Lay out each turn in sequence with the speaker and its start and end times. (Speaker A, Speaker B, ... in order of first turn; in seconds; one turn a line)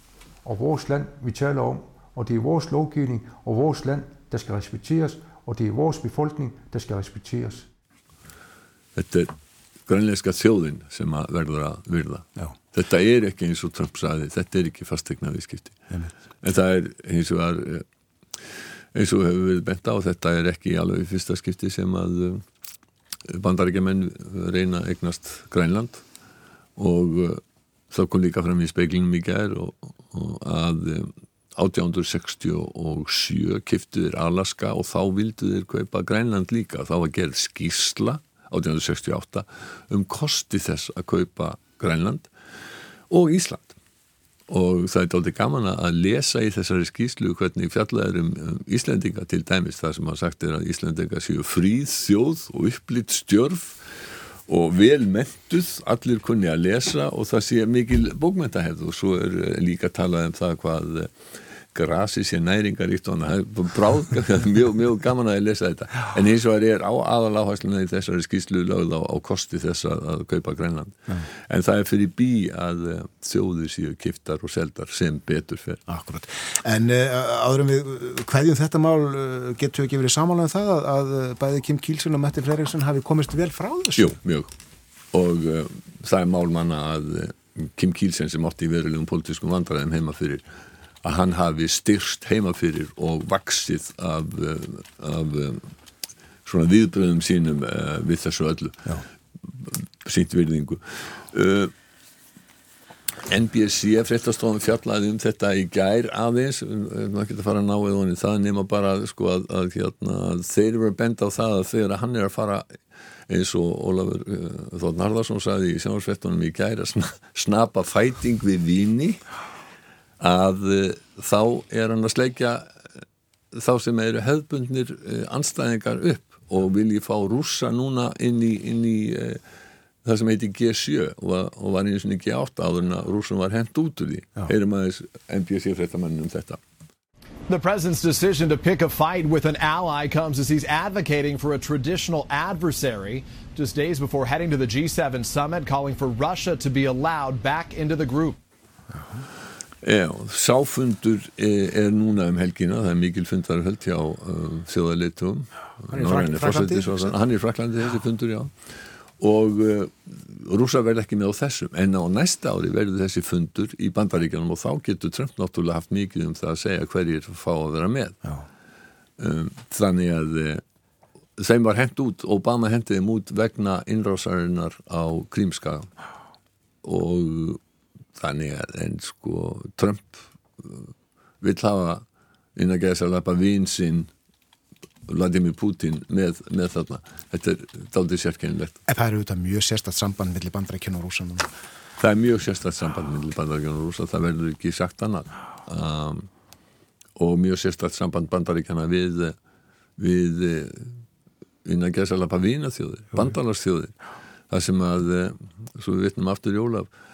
Speaker A: 0.4-7.7
Speaker B: 8.9-9.3
Speaker B: 9.9-15.8
Speaker B: 16.4-17.9
Speaker B: 18.4-22.4
Speaker B: 23.3-26.0
Speaker B: 26.8-42.3
Speaker B: 43.1-43.8
Speaker B: 44.5-75.8
Speaker C: 75.9-84.2
Speaker B: 84.0-84.5
Speaker B: 85.1-90.4
Speaker B: 91.0-95.7
Speaker B: 96.5-101.7
Speaker B: 103.2-112.8
Speaker B: 113.3-119.2
Speaker B: 120.2-123.0
Speaker B: 123.5-129.4
Speaker B: 130.0-136.6
Speaker D: 137.5-148.4
Speaker C: 148.9-149.2
Speaker B: 149.8-168.2
Speaker C: 155.9-157.2
Speaker B: 169.2-170.6
Speaker B: 171.4-175.9
Speaker B: 176.8-177.6
Speaker B: 178.2-184.1
Speaker B: 185.1-188.8
Speaker C: 188.9-191.5
Speaker B: 192.0-196.3
Speaker B: 197.2-199.4
Speaker B: 200.0-201.0
Speaker B: 201.6-204.0
Speaker B: 204.5-206.9